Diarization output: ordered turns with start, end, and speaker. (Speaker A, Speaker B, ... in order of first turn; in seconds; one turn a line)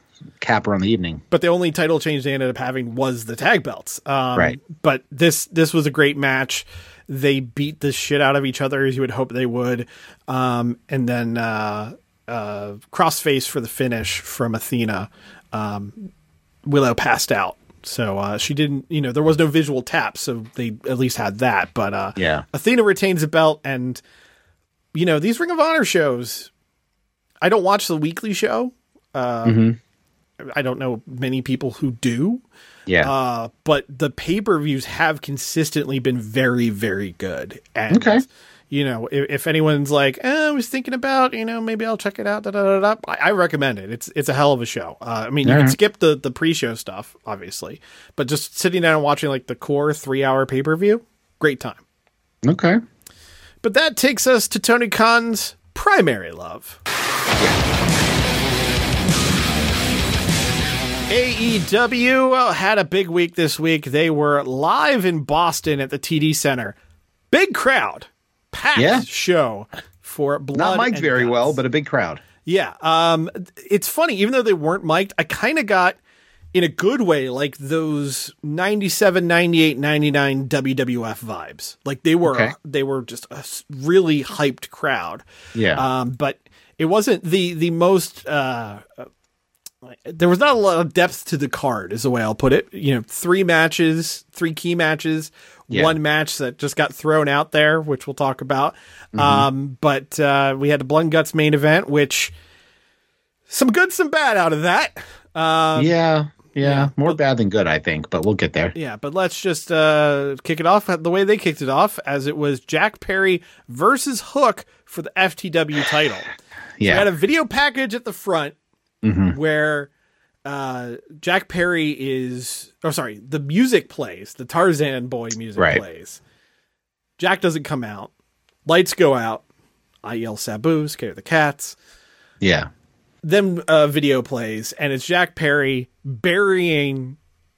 Speaker A: 0.4-1.2
Speaker B: 1.3-16.0
Speaker B: 16.7-24.0
Speaker A: 22.2-22.4
Speaker B: 24.9-26.5
Speaker B: 27.4-29.6
Speaker A: 29.4-29.8
Speaker B: 30.4-32.4
Speaker B: 33.0-51.8
Speaker A: 37.9-38.2
Speaker A: 45.4-45.8
Speaker A: 52.4-52.8
Speaker B: 53.6-56.8
Speaker B: 61.1-66.8
Speaker B: 67.3-71.6
Speaker A: 68.8-69.1
Speaker A: 70.5-72.2
Speaker B: 72.5-76.0
Speaker B: 76.5-85.2
Speaker A: 82.2-82.5
Speaker A: 85.5-85.8
Speaker B: 85.8-89.1
Speaker B: 89.8-102.3
Speaker A: 95.7-96.0
Speaker A: 99.2-99.5
Speaker B: 103.5-106.0
Speaker A: 105.8-108.8
Speaker B: 106.6-107.2
Speaker B: 108.8-116.3
Speaker A: 116.8-117.1
Speaker B: 116.8-118.5
Speaker A: 119.0-119.4
Speaker B: 119.3-119.9
Speaker B: 120.5-126.2
Speaker A: 125.6-125.8
Speaker B: 127.2-128.1
Speaker B: 128.7-129.4
Speaker B: 130.0-131.8
Speaker A: 132.4-132.7
Speaker B: 133.2-137.2